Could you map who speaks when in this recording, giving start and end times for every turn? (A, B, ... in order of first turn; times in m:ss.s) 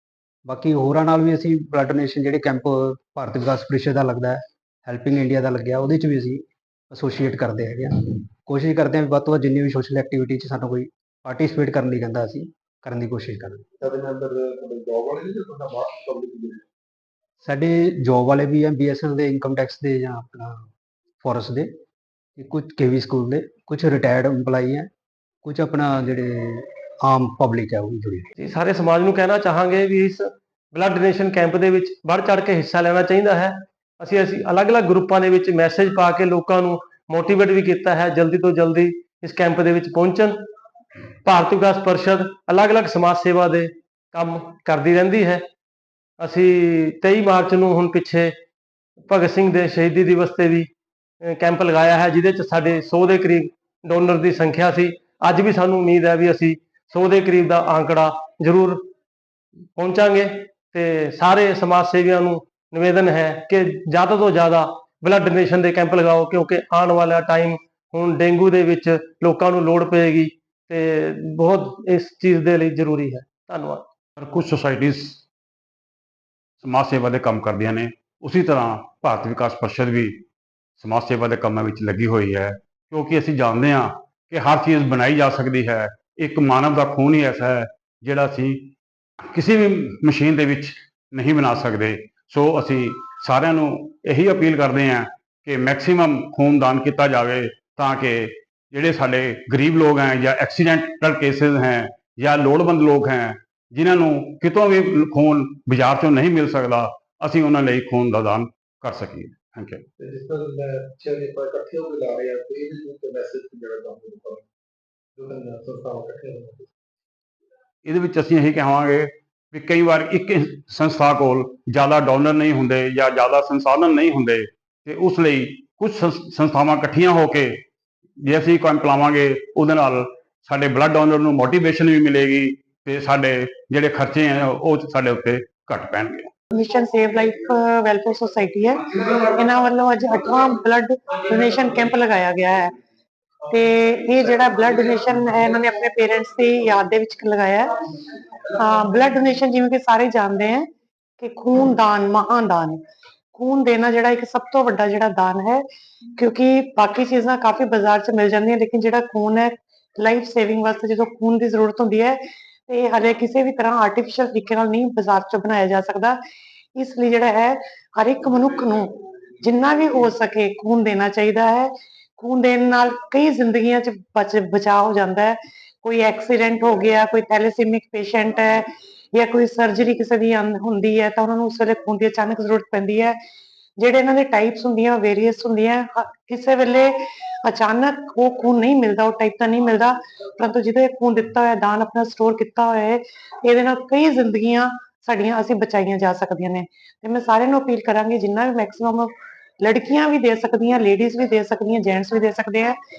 0:00.5-0:13.6 A
0:13.8-0:16.6 B
0:17.4-0:20.7 A
0:21.2-0:21.7 A
0:22.4-0:24.9 A
0:25.4-0:28.3 A
0:28.4-0:30.2 C
0:30.7-0:40.4 C
0:41.2-0:45.4 C
0:46.2-0:48.3 C
0:49.1-0:50.7 C
0:51.2-0:58.8 C
0:59.8-1:13.8 C
1:14.2-1:15.2 D
1:16.6-1:20.2 D
1:20.8-1:28.7 D
1:29.3-1:49.8 D
1:50.0-1:54.4 B
1:55.2-1:56.7 B
1:57.8-2:07.5 D
2:08.2-2:16.3 D
2:16.5-2:22.7 E
2:23.5-2:27.7 E
2:28.6-2:30.7 E
2:31.2-2:32.8 E
2:33.4-2:35.6 E
2:36.2-2:46.2 E
2:46.8-3:03.2 E
3:03.8-3:22.8 E